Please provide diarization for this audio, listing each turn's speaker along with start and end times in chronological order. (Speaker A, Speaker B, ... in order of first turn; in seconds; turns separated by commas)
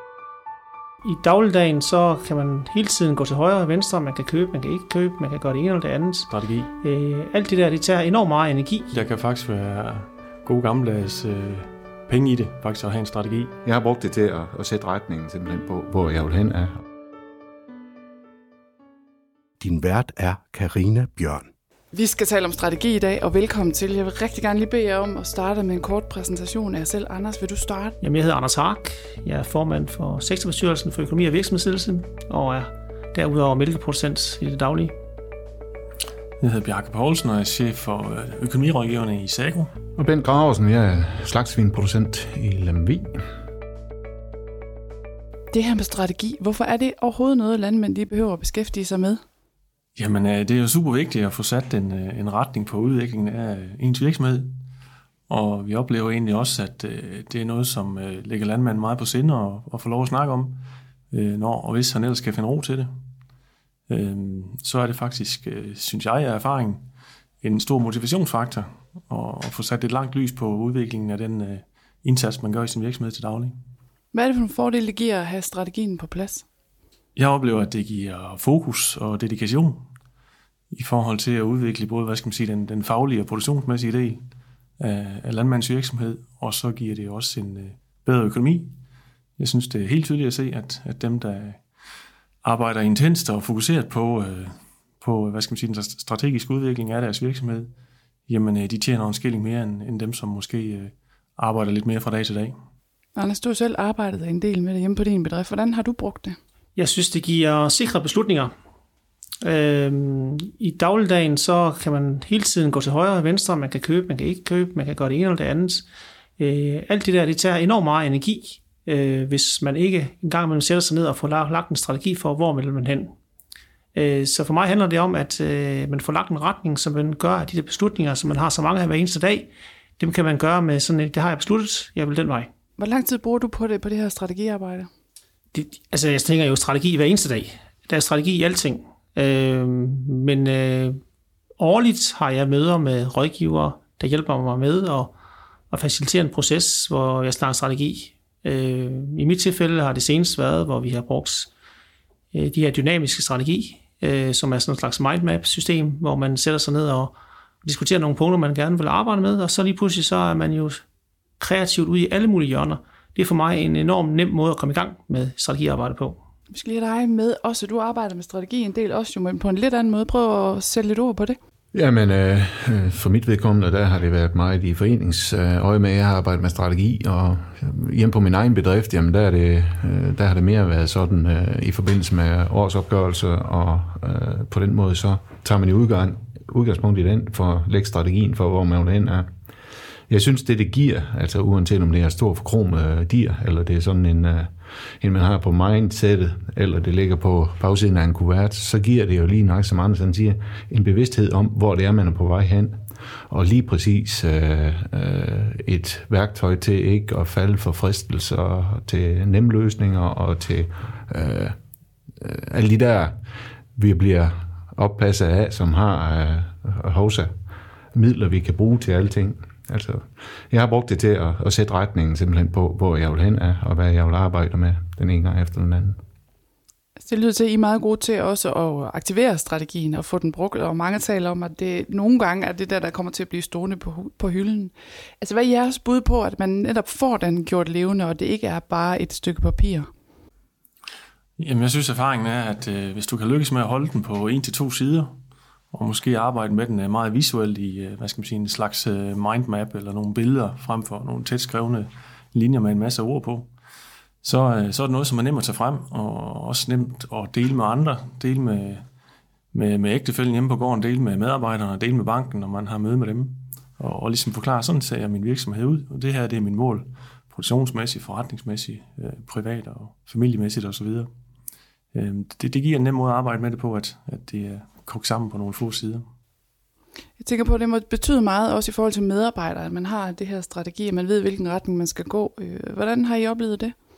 Speaker A: 1.0-8.9, Speaker B: 6.3-6.7, Speaker B: 8.9-13.5, Speaker C: 13.6-16.8, Speaker D: 19.6-21.5, Speaker E: 21.9-27.9, Speaker A: 28.0-34.9, Speaker B: 36.4-39.7, Speaker C: 40.0-43.2, Speaker E: 45.5-49.2, Speaker B: 50.0-54.5, Speaker B: 55.3-62.9, Speaker B: 63.9-66.9, Speaker B: 67.4-73.5, Speaker E: 74.1-76.4, Speaker B: 77.1-79.8, Speaker B: 80.7-84.2, Speaker B: 84.8-88.7, Speaker B: 89.4-91.6, Speaker B: 92.4-97.7, Speaker B: 98.3-102.5, Speaker E: 103.2-106.4, Speaker A: 106.8-108.5, Speaker A: 109.4-115.9, Speaker A: 116.4-123.1, Speaker A: 123.9-132.5, Speaker E: 132.8-134.9, Speaker A: 135.5-141.0, Speaker A: 141.6-145.1, Speaker A: 145.7-151.5, Speaker A: 152.3-160.8, Speaker A: 161.4-166.2, Speaker E: 166.5-171.4, Speaker C: 171.7-189.3, Speaker C: 190.1-202.8, Speaker C: 203.3-211.6, Speaker C: 212.2-213.1, Speaker C: 213.8-217.3, Speaker C: 217.9-226.0, Speaker E: 227.0-239.9, Speaker B: 241.4-245.1, Speaker B: 245.7-253.5, Speaker B: 254.2-258.8, Speaker B: 259.5-271.1, Speaker B: 271.9-276.0, Speaker E: 277.2-283.7